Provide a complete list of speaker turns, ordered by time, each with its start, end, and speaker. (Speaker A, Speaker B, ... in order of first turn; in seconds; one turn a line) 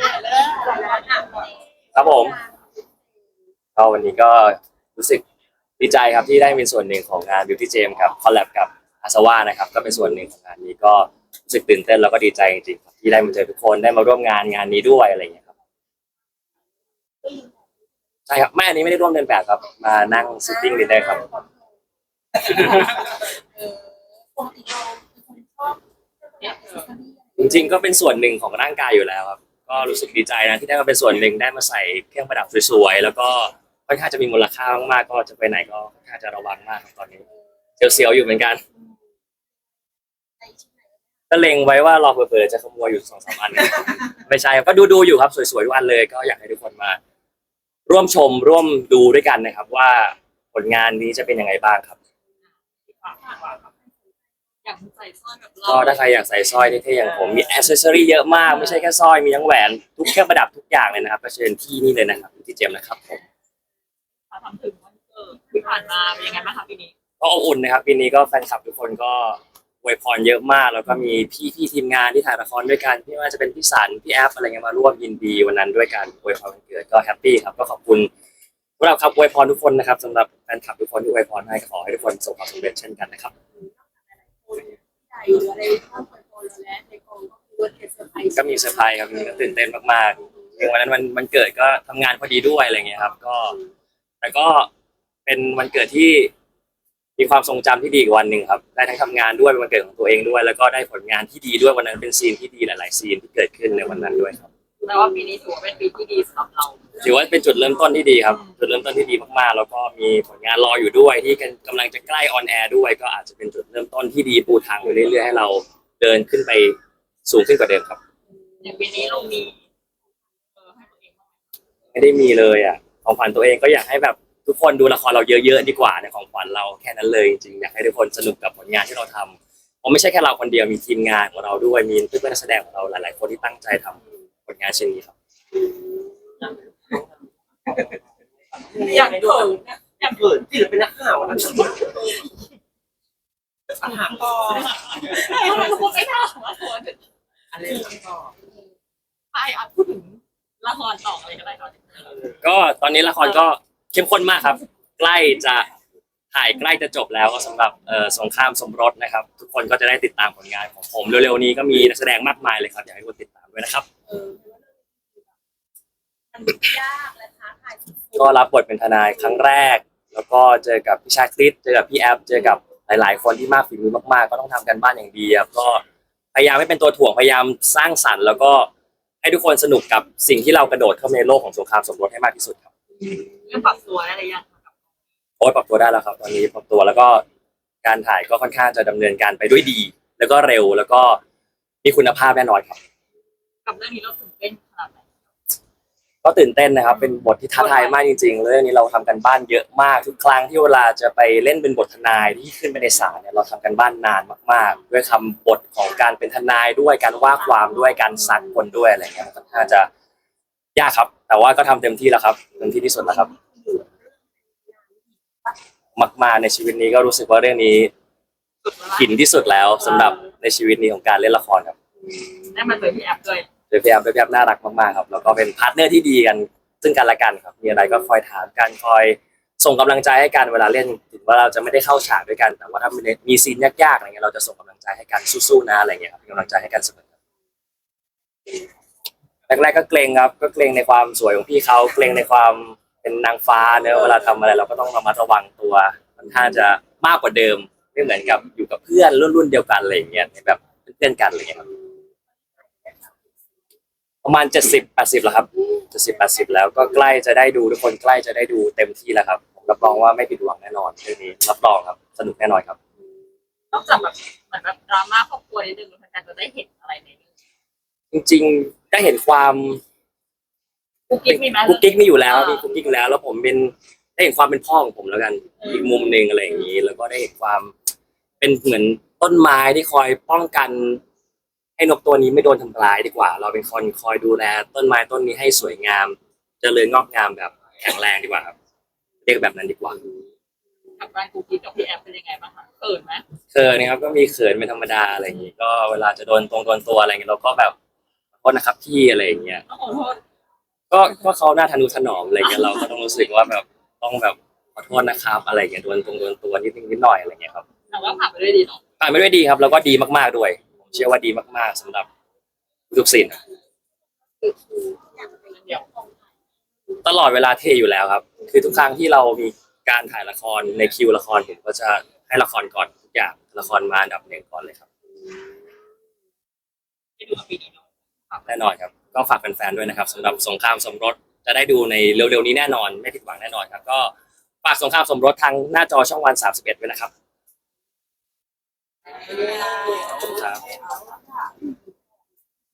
Speaker A: 0.6-1.4
Speaker B: 1.9-2.4
Speaker B: 3.8-5.2
Speaker B: 5.8-15.5
Speaker B: 18.3-21.2
Speaker A: 22.5-23.8
Speaker A: 24.4-25.8
Speaker A: 26.4-27.1
Speaker B: 27.4-37.2
Speaker B: 37.8-38.6
Speaker A: 40.4-40.7
Speaker B: 41.3-47.0
Speaker B: 47.9-52.0
Speaker C: 53.0-53.6
Speaker C: 54.6-56.2
Speaker B: 55.7-63.2
Speaker C: 64.3-66.9
Speaker B: 67.2-78.1
Speaker B: 78.8-83.3
Speaker A: 83.6-88.5
Speaker B: 88.3-93.6
Speaker B: 94.2-94.7
Speaker B: 95.2-96.3
Speaker B: 97.2-104.5
Speaker C: 104.8-106.9
Speaker B: 107.0-118.0
Speaker C: 108.2-108.5
Speaker C: 118.6-119.6
Speaker C: 120.6-121.2
Speaker B: 121.9-135.1
Speaker C: 138.7-140.4
Speaker D: 138.7-141.8
Speaker C: 141.3-141.7
Speaker D: 143.8-144.7
Speaker C: 143.8-147.0
Speaker D: 147.5-148.3
Speaker C: 149.3-152.2
Speaker B: 152.4-155.7
Speaker B: 156.3-163.9
Speaker A: 164.1-164.9
Speaker A: 166.4-168.2
Speaker B: 168.2-175.8
Speaker B: 176.3-178.7
Speaker B: 179.2-182.7
Speaker C: 183.4-184.7
Speaker B: 185.4-187.2
Speaker B: 187.8-191.2
Speaker B: 191.8-192.8
Speaker C: 193.7-195.1
Speaker B: 196.2-209.9
Speaker C: 197.6-198.0
Speaker B: 210.8-213.3
Speaker A: 213.3-214.0
Speaker B: 216.0-217.9
Speaker C: 218.6-219.1
Speaker B: 219.0-221.8
Speaker C: 219.8-220.2
Speaker C: 222.5-223.5
Speaker B: 223.7-237.0
Speaker B: 239.5-251.6
Speaker B: 254.2-262.8
Speaker C: 263.7-267.2
Speaker B: 268.1-269.8
Speaker C: 271.1-272.7
Speaker B: 271.2-277.7
Speaker B: 278.4-281.0
Speaker B: 281.8-288.5
Speaker B: 289.2-290.0
Speaker C: 291.0-293.2
Speaker B: 293.5-297.7
Speaker B: 298.4-299.6
Speaker C: 299.7-300.2
Speaker B: 300.9-307.6
Speaker C: 307.9-308.8
Speaker B: 309.0-312.1
Speaker B: 312.9-313.4
Speaker A: 314.4-316.0
Speaker B: 317.0-324.8
Speaker C: 327.2-328.5
Speaker B: 328.5-337.1
Speaker C: 339.4-340.2
Speaker B: 340.1-340.6